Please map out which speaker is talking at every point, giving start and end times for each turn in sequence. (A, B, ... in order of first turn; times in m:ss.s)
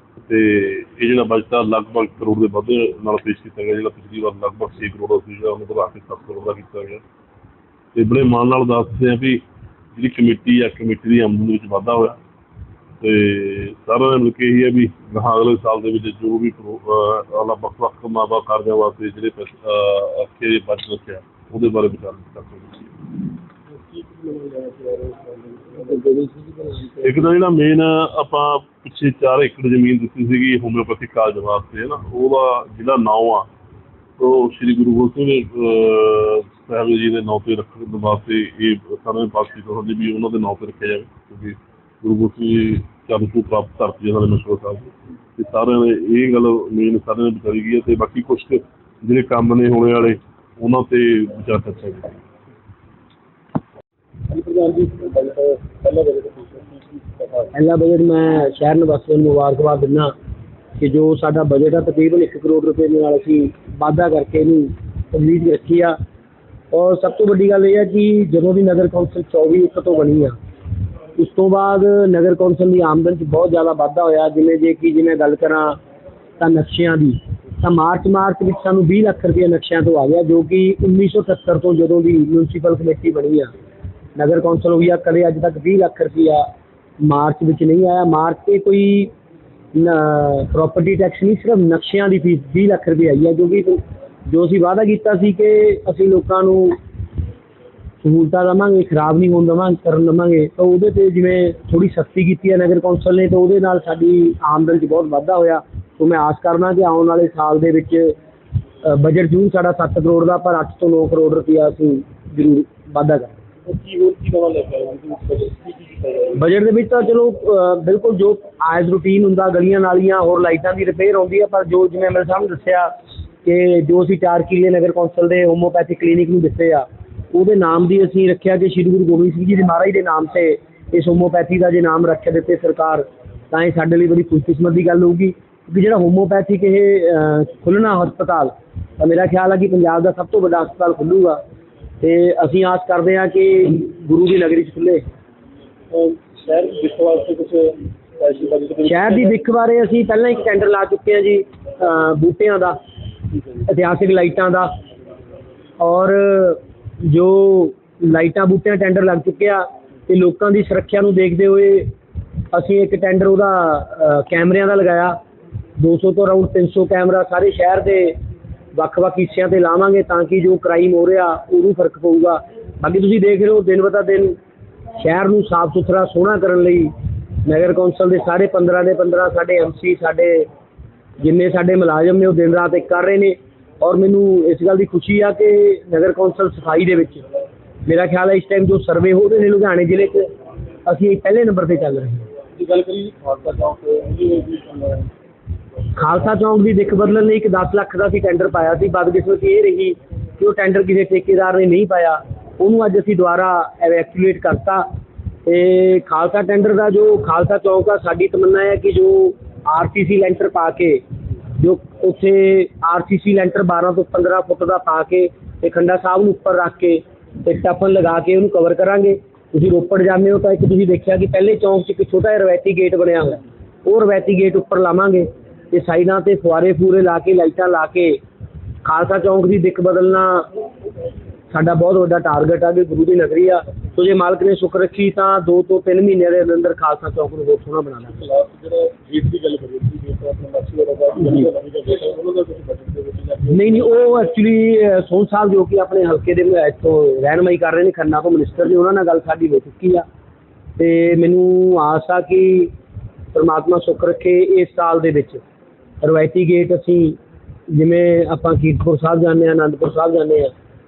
0:00.3-0:07.0 A
0:07.9-0:09.4 A
0:10.0-0:12.2 A
0:13.0-0:23.0 A
0:23.7-0:26.1 B
0:25.9-0:27.0 C
0:27.0-0:33.5 A
0:34.2-0:52.2 A
0:54.3-0:57.5 B
0:57.5-1:00.1 C
1:00.8-1:06.0 C
1:06.7-1:10.4 C
1:11.2-1:15.8 C
1:16.4-1:23.5 C
1:24.2-1:26.5 C
1:27.0-1:29.1 C
1:29.8-1:36.8 C
1:38.0-1:48.2 C
1:48.8-1:53.4 C
1:53.7-1:56.4 B
1:56.4-2:02.9 C
2:03.4-2:21.4 C
2:22.0-2:25.0 C
2:25.9-2:29.4 B
2:28.8-2:32.8 C
2:33.6-2:34.7 C
2:35.8-2:41.9 C
2:42.5-2:45.2 C
2:45.8-2:48.2 C
2:48.7-2:54.4 C
2:55.0-2:56.9 C
2:57.4-3:00.5 C
3:01.2-3:07.2 C
3:07.8-3:10.3 C
3:10.9-3:12.3 C
3:12.6-3:15.1 B
3:16.0-3:24.9 C
3:25.5-3:31.0 C
3:31.6-3:48.2 C
3:48.8-3:50.5 C
3:51.5-3:58.2 C
3:58.2-4:03.8 B
4:03.5-4:10.1 C
4:10.8-4:12.7 C
4:13.3-4:15.4 C
4:16.0-4:20.5 C